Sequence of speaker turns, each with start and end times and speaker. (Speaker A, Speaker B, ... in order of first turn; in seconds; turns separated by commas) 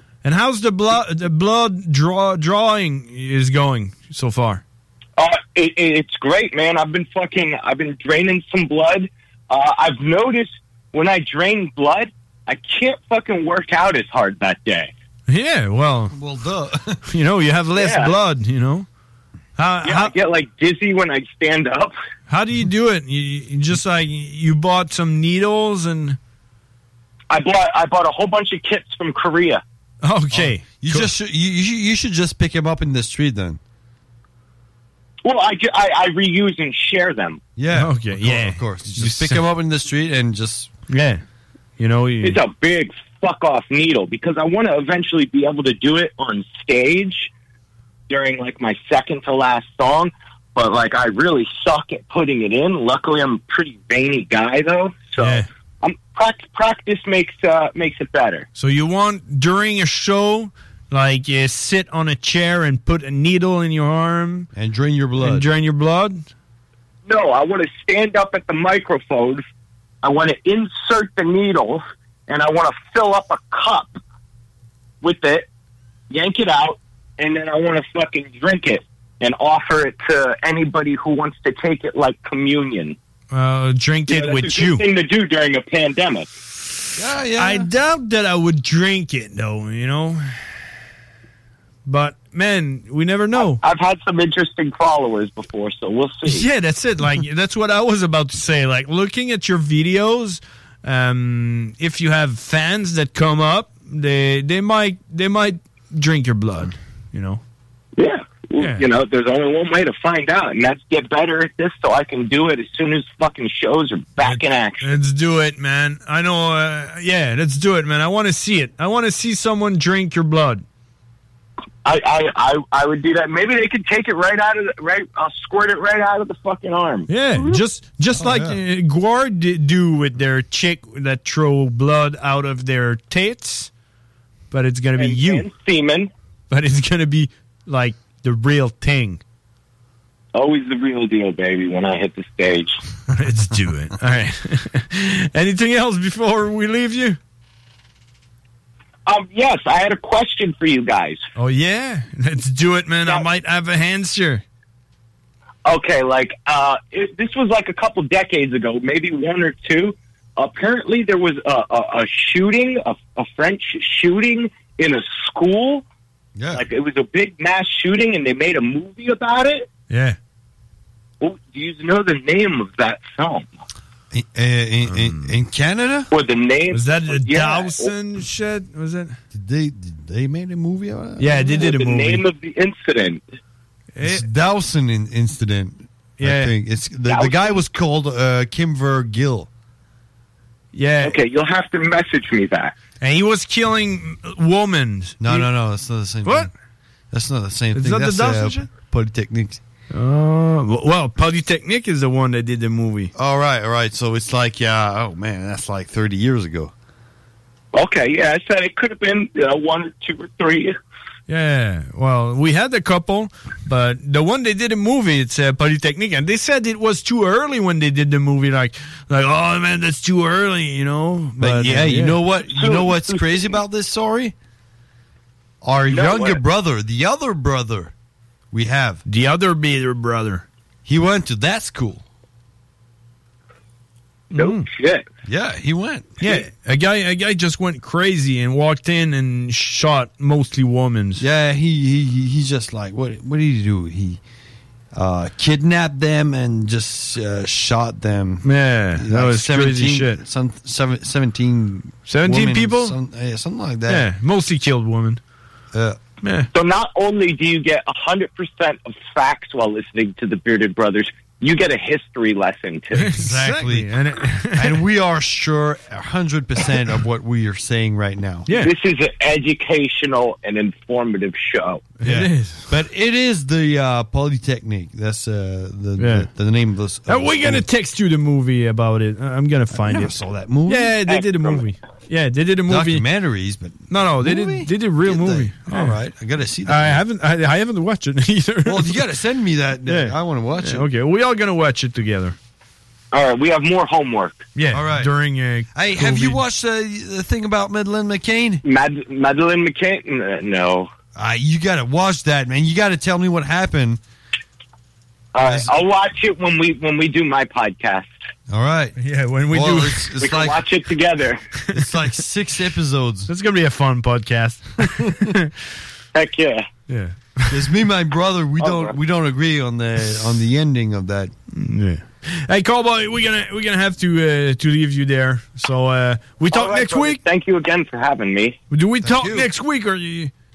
Speaker A: 0.2-4.6, Speaker B: 5.2-14.9, Speaker A: 15.3-16.1, Speaker C: 16.1-17.0, Speaker A: 17.1-18.9, Speaker B: 17.8-18.1, Speaker A: 19.6-20.1, Speaker B: 19.8-21.9, Speaker A: 22.3-26.2, Speaker B: 27.3-29.6, Speaker A: 30.0-31.1, Speaker C: 30.3-33.6, Speaker B: 35.2-37.4, Speaker C: 37.6-40.7, Speaker A: 37.7-39.4, Speaker A: 40.9-41.2, Speaker A: 41.8-42.4, Speaker B: 42.2-47.3, Speaker B: 48.1-58.5, Speaker A: 55.2-55.5, Speaker A: 58.5-64.5, Speaker C: 64.5-65.5, Speaker A: 65.2-66.2, Speaker B: 67.0-69.4, Speaker B: 70.0-73.9, Speaker B: 75.0-75.5, Speaker B: 76.1-83.0, Speaker A: 83.3-84.8, Speaker B: 84.1-86.3, Speaker C: 87.0-87.7, Speaker A: 87.4-90.2, Speaker A: 91.8-93.6, Speaker B: 93.3-96.5, Speaker A: 96.2-107.4, Speaker B: 108.0-114.9, Speaker A: 108.6-108.8, Speaker A: 114.2-120.6, Speaker B: 121.8-127.1, Speaker A: 127.1-133.7, Speaker C: 128.1-128.6, Speaker A: 134.5-135.4, Speaker B: 134.9-136.1, Speaker A: 136.5-139.2, Speaker B: 140.3-142.8, Speaker A: 143.1-147.2, Speaker B: 149.1-151.2, Speaker A: 151.3-154.4, Speaker B: 155.6-165.8, Speaker C: 166.4-166.7, Speaker B: 166.5-169.7, Speaker A: 169.9-170.2, Speaker B: 171.2-173.5, Speaker C: 174.1-176.1, Speaker A: 174.9-175.3, Speaker B: 176.1-177.9, Speaker A: 176.7-179.2, Speaker C: 179.3-181.6, Speaker A: 181.2-182.2, Speaker B: 181.5-183.2, Speaker A: 183.9-184.2, Speaker C: 184.0-189.5, Speaker A: 186.2-186.5, Speaker B: 187.1-187.6, Speaker A: 190.7-191.2, Speaker B: 191.0-192.7, Speaker A: 193.0-195.5, Speaker C: 195.2-196.5, Speaker A: 196.2-196.5, Speaker C: 197.1-199.6, Speaker A: 197.7-198.7, Speaker A: 199.9-203.1, Speaker C: 203.1-206.7, Speaker B: 207.7-210.8, Speaker A: 211.3-222.2, Speaker C: 221.4-224.3, Speaker B: 222.4-223.6, Speaker C: 225.6-227.9, Speaker B: 225.9-226.4, Speaker C: 228.5-229.0, Speaker A: 229.1-230.4, Speaker C: 230.8-232.0, Speaker B: 234.3-235.0, Speaker A: 234.3-234.7, Speaker C: 235.2-236.3, Speaker A: 236.2-241.2, Speaker C: 241.2-244.2, Speaker C: 244.9-254.1, Speaker A: 248.4-250.2, Speaker A: 252.1-252.9, Speaker A: 253.9-255.2, Speaker C: 255.7-256.0, Speaker A: 256.2-256.5, Speaker B: 256.5-263.1, Speaker A: 262.9-264.8, Speaker C: 263.1-263.9, Speaker C: 264.5-268.5, Speaker B: 268.5-271.9, Speaker A: 272.0-272.7, Speaker C: 272.0-277.6, Speaker A: 276.0-276.3, Speaker A: 277.1-280.1, Speaker C: 279.7-280.9, Speaker A: 280.7-283.0, Speaker B: 281.1-281.6, Speaker C: 282.7-287.0, Speaker A: 283.9-286.0, Speaker A: 286.6-289.0, Speaker C: 288.6-290.8, Speaker A: 289.9-292.4, Speaker B: 293.1-294.4, Speaker A: 294.5-296.4, Speaker C: 294.7-295.1, Speaker C: 295.7-298.6, Speaker B: 298.6-300.9, Speaker C: 301.1-304.0, Speaker B: 305.3-308.1, Speaker C: 305.4-305.7, Speaker C: 308.5-308.9, Speaker A: 309.0-310.1, Speaker C: 309.5-310.6, Speaker B: 310.2-311.4, Speaker C: 311.7-313.3, Speaker A: 313.3-315.5, Speaker B: 316.1-316.6, Speaker A: 316.9-317.7, Speaker C: 317.5-321.3, Speaker B: 318.6-318.9, Speaker A: 321.5-327.2, Speaker B: 326.5-328.6, Speaker A: 328.7-330.3, Speaker C: 329.0-329.5